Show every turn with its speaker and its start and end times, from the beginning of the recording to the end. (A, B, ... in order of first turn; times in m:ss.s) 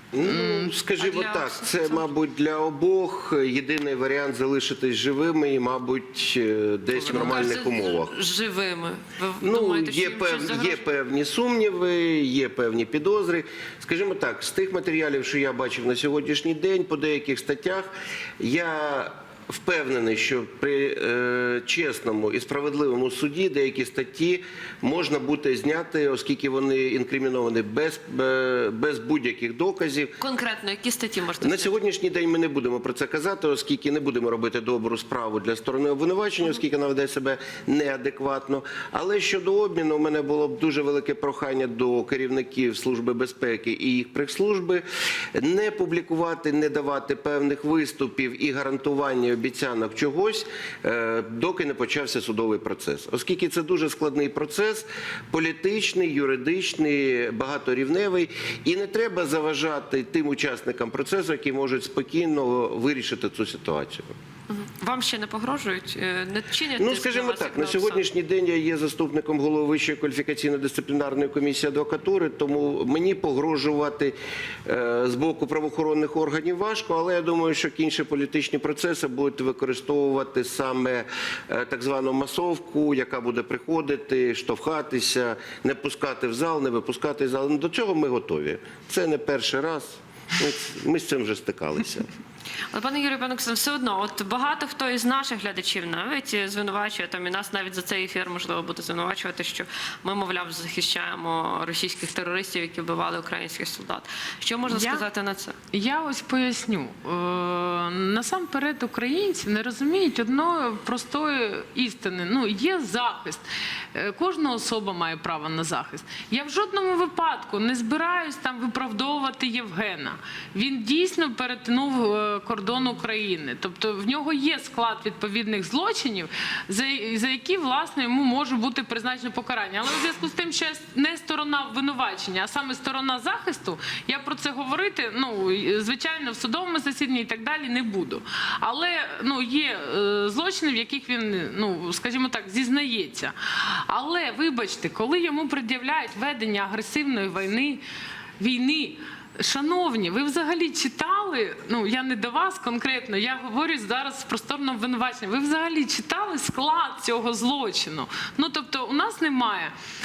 0:00.1-0:08.1 A
0:00.2-0:00.7 B
0:01.0-0:02.1 C
0:06.9-0:10.9 C
0:09.4-0:30.2 A
0:30.2-0:31.7 C
0:31.4-1:04.1 A
1:04.5-1:08.0 C
1:06.8-1:32.1 A
1:32.7-1:45.6 C
1:44.7-1:45.0 B
1:45.7-2:27.8 B
2:28.4-2:39.7 B